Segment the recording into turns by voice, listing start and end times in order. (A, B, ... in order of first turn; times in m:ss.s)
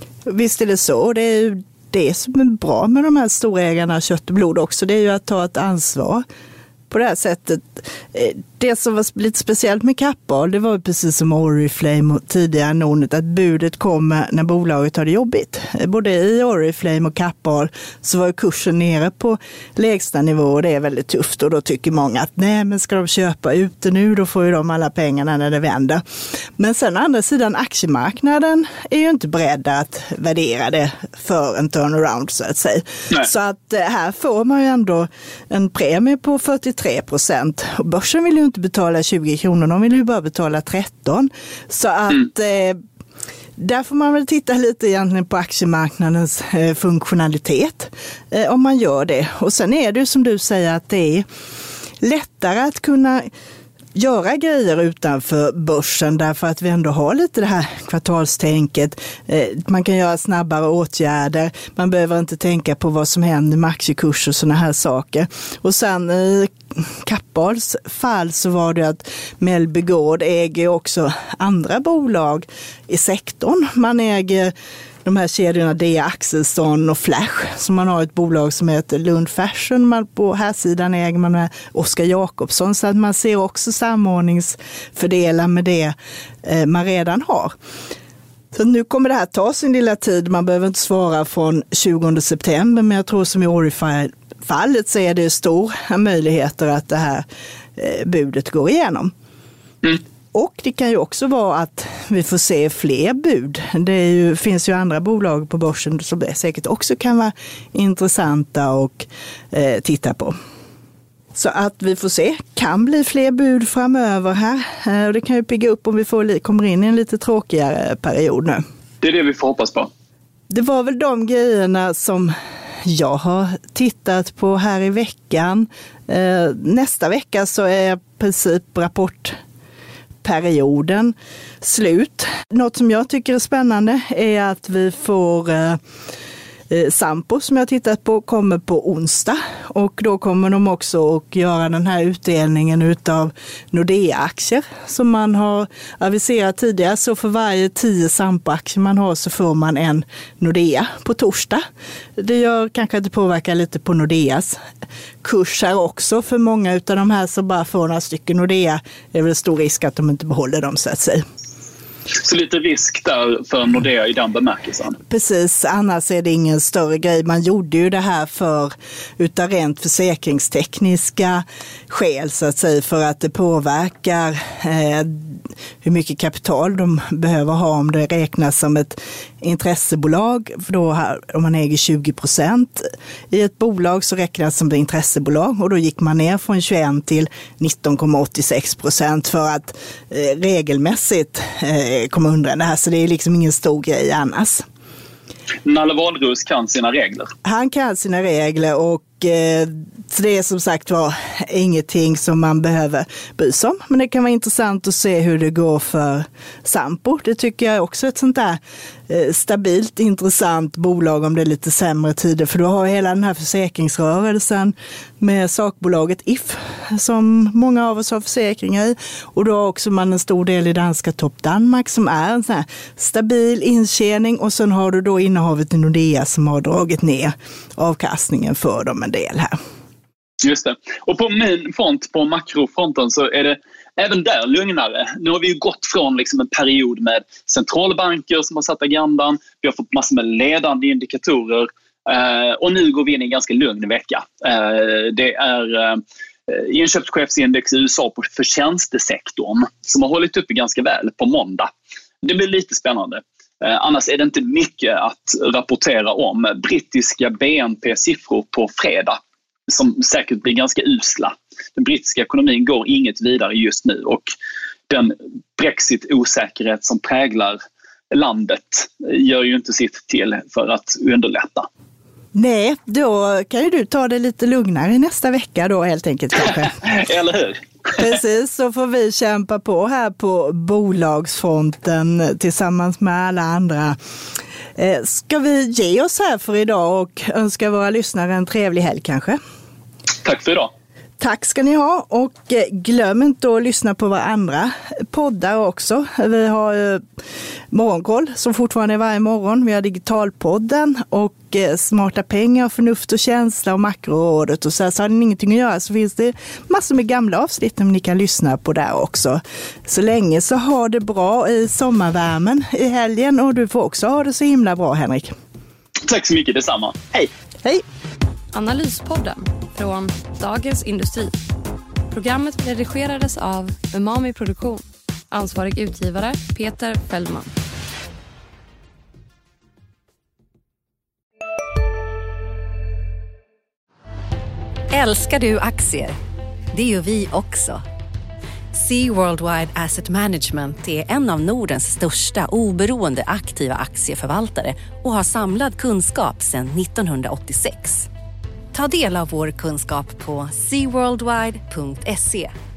0:00.3-0:06.2 A
0:06.9-0:26.0 A
0:26.6-0:42.8 A
0:43.6-0:51.3 A
0:52.0-0:53.3 A
0:54.0-1:14.5 A
1:15.0-1:27.5 A
1:28.5-1:37.3 A
1:37.8-1:39.1 A
1:40.3-1:50.4 A
1:51.3-1:58.6 A
1:59.0-1:59.9 B
2:00.5-2:09.4 A
2:10.2-2:15.8 A
2:16.7-2:31.6 A
2:32.2-2:34.6 A
2:35.2-2:41.2 A
2:42.1-2:45.0 B
2:45.1-3:14.6 A
3:15.6-3:17.3 B
3:17.4-3:49.5 A
3:50.4-4:11.7 B
4:12.2-4:24.3 B
4:24.9-4:27.6 B
4:28.1-4:31.7 B
4:32.3-4:36.8 A
4:36.8-4:38.1 B
4:38.0-4:44.0 A
4:44.8-4:49.4 A
4:50.2-4:50.7 B
4:51.2-4:57.0 A
4:57.7-5:15.3 A
5:16.0-5:17.3 B
5:18.5-5:21.4 C
5:22.1-5:27.5 C
5:34.9-5:36.2 D
5:36.7-5:37.8 D
5:38.7-5:48.1 D
5:48.7-5:52.5 D